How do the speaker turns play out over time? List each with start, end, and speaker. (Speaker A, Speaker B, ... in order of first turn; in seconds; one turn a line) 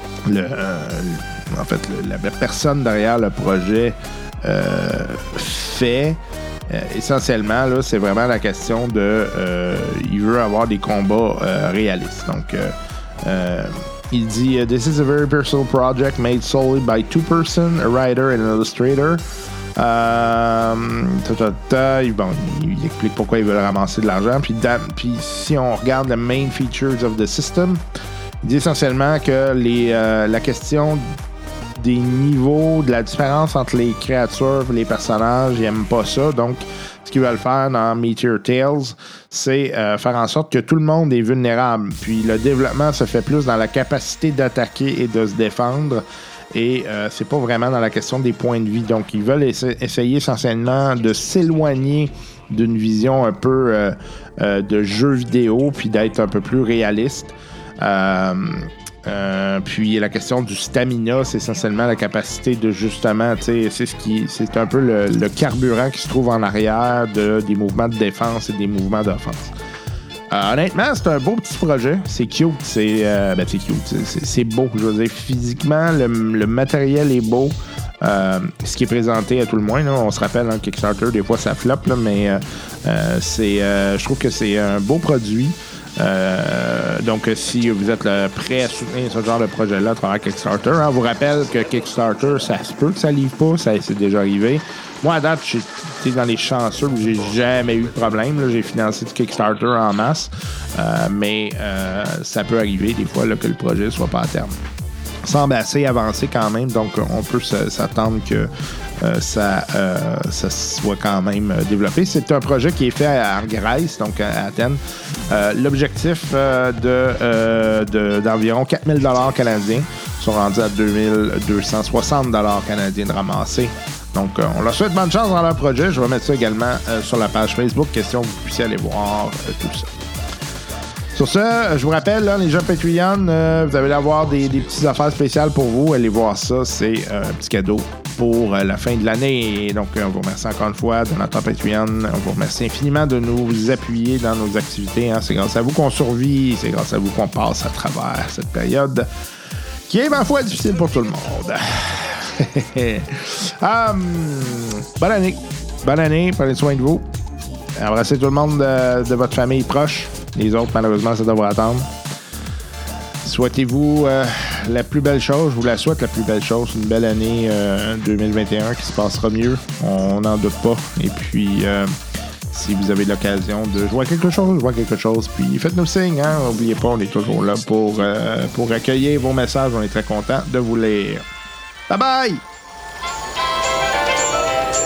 Speaker A: 0.2-19.2
Speaker A: 19.8-27.8
Speaker A: 28.4-31.1
Speaker A: 31.8-69.5
Speaker A: 70.3-104.6
Speaker A: 105.2-129.9
Speaker A: 131.2-149.1
Speaker A: 149.9-157.1
Speaker A: 157.8-161.9
Speaker A: 163.2-172.0
Speaker A: 172.5-181.2
Speaker A: 181.9-182.4